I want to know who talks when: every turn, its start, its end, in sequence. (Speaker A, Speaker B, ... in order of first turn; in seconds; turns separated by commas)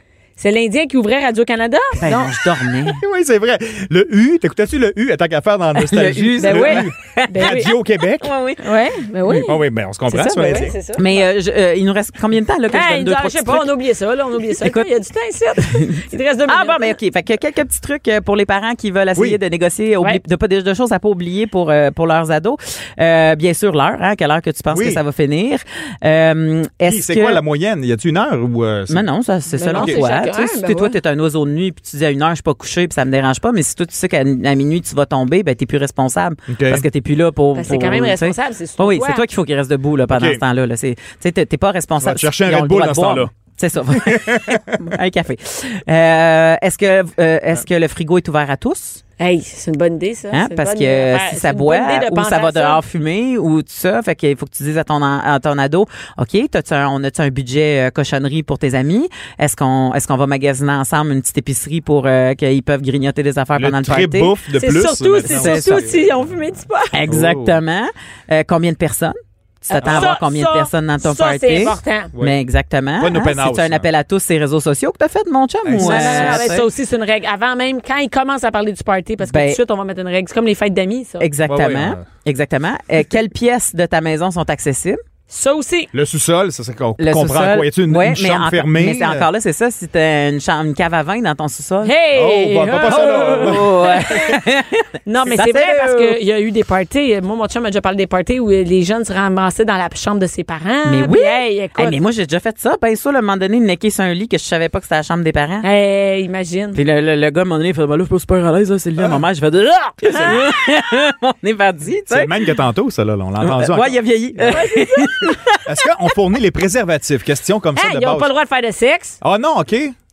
Speaker A: 0.4-2.3, Speaker B: 2.0-3.0, Speaker C: 2.8-8.3, Speaker B: 5.8-7.7, Speaker A: 6.4-7.7, Speaker B: 8.2-9.4, Speaker A: 8.6-9.6, Speaker C: 9.3-10.8, Speaker A: 10.1-11.2, Speaker B: 10.1-13.8, Speaker A: 12.7-16.9, Speaker B: 14.5-14.9, Speaker B: 15.7-27.4, Speaker C: 24.7-25.0, Speaker C: 26.9-29.0, Speaker B: 28.9-49.0, Speaker A: 29.6-30.9, Speaker C: 29.7-30.0, Speaker C: 36.5-36.9, Speaker A: 37.5-39.2, Speaker C: 40.1-40.4, Speaker C: 42.0-43.3, Speaker C: 43.9-44.9, Speaker A: 49.2-52.8, Speaker B: 50.3-64.4, Speaker C: 63.5-66.3, Speaker A: 64.5-66.9, Speaker B: 65.2-65.9, Speaker B: 66.9-76.6, Speaker C: 67.0-67.5, Speaker A: 69.7-72.1, Speaker C: 69.8-70.1, Speaker C: 73.0-73.9, Speaker C: 75.6-76.6, Speaker A: 75.8-81.3, Speaker B: 79.2-79.6, Speaker B: 81.2-85.0, Speaker C: 81.5-82.1, Speaker A: 85.3-85.9, Speaker C: 85.9-89.3, Speaker B: 87.0-92.0, Speaker A: 91.8-94.4, Speaker C: 92.1-94.2, Speaker B: 92.8-96.2, Speaker A: 95.0-102.0, Speaker B: 100.8-105.7, Speaker A: 105.6-106.8, Speaker B: 106.7-112.6, Speaker A: 110.1-110.4, Speaker C: 112.1-114.6, Speaker B: 113.4-115.6, Speaker A: 114.5-115.3, Speaker C: 115.7-118.3, Speaker A: 117.7-119.2, Speaker C: 119.2-119.9